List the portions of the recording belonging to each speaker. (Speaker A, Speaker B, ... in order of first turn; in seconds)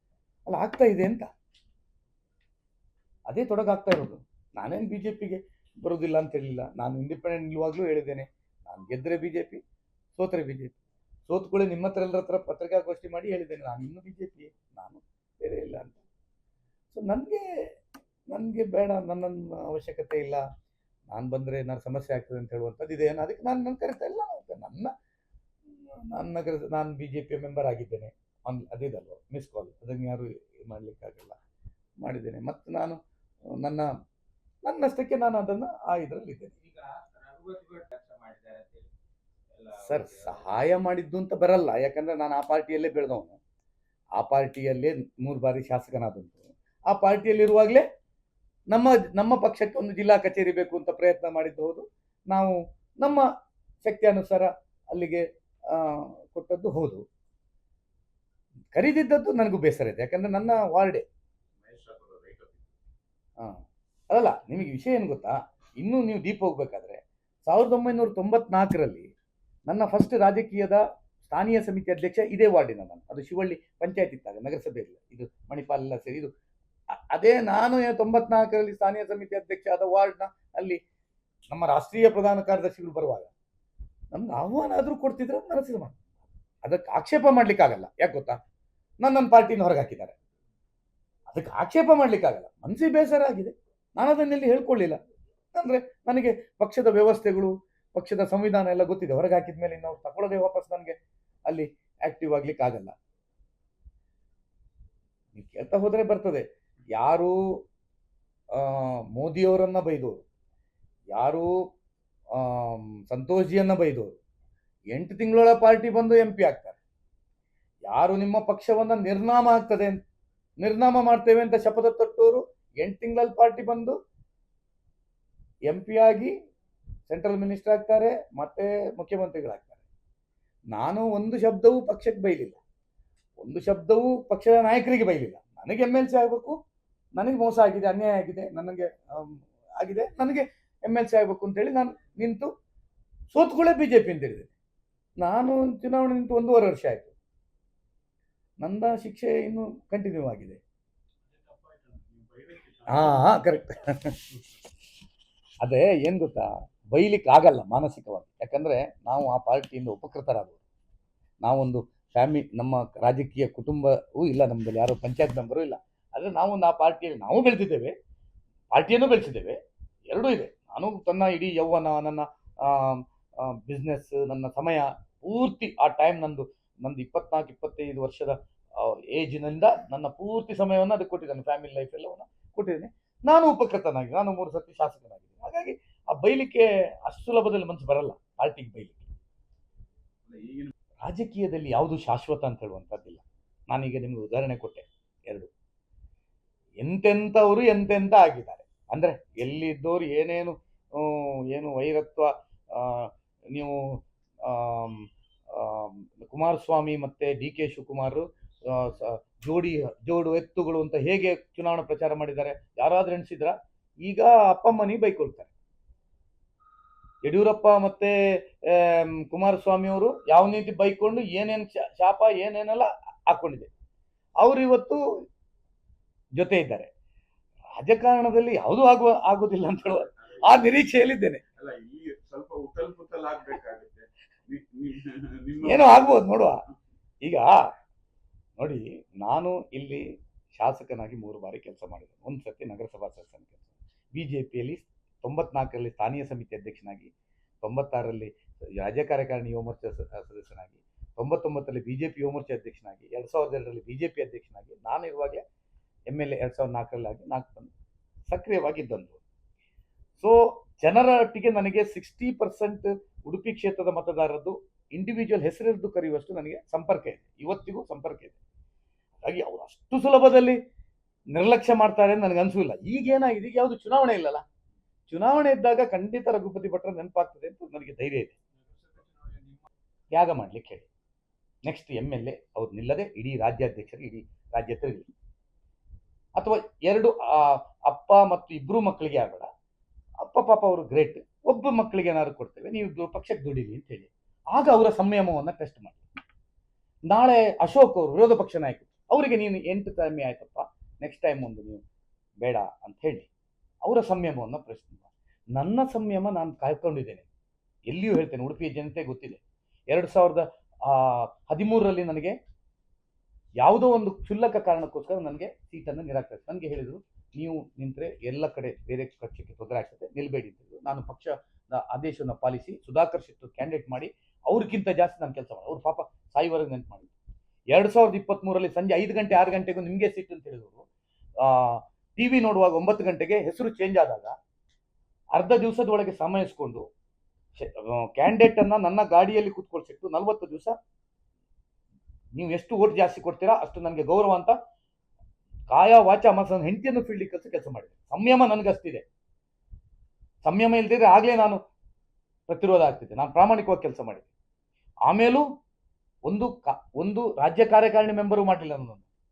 Speaker A: 0.5-1.3, 3.3-9.6, 10.2-16.0, 16.9-17.6, 18.3-20.4, 21.1-24.9, 25.7-31.4, 32.0-33.0, 33.5-33.9, 34.6-36.5, 39.8-43.4, 44.1-47.8, 48.7-53.2, 53.8-57.0, 58.7-61.0, 63.4-69.1, 69.7-76.3, 76.9-80.8, 81.5-83.3, 84.1-86.0, 86.6-88.4, 89.0-90.1, 91.3-95.0, 95.5-101.0, 101.5-102.9, 105.3-107.6, 108.5-110.2, 111.1-111.5, 112.3-114.2, 114.9-116.8, 117.9-120.0, 120.6-124.0, 125.7-126.3, 127.1-129.8, 130.7-132.6, 133.4-136.6, 137.2-142.5, 143.3-144.5, 145.2-147.1, 148.6-150.6, 152.9-154.2, 155.6-160.6, 161.4-167.9, 168.7-189.1, 191.0-195.5, 196.8-215.5, 217.2-223.7, 224.4-225.0, 226.3-226.9, 227.7-231.4, 235.6-236.6, 237.2-237.6, 238.6-255.4, 256.1-257.7, 258.3-259.2, 260.2-268.4, 269.2-270.6, 271.3-274.4, 275.1-278.3, 280.1-280.9, 281.6-285.1, 286.4-289.5, 290.2-296.1, 297.1-301.8, 302.4-303.3, 303.8-307.3, 307.9-312.4, 313.6-327.1, 327.7-330.8, 331.4-334.3, 335.3-336.9, 337.6-340.7, 342.3-344.5, 345.7-349.0, 350.4-351.6, 352.5-354.3, 355.1-355.4, 356.2-359.1
Speaker B: 36.6-38.9, 39.5-40.4, 61.6-62.7, 151.2-153.4, 190.3-190.7, 230.0-230.7, 231.5-236.1, 278.5-279.6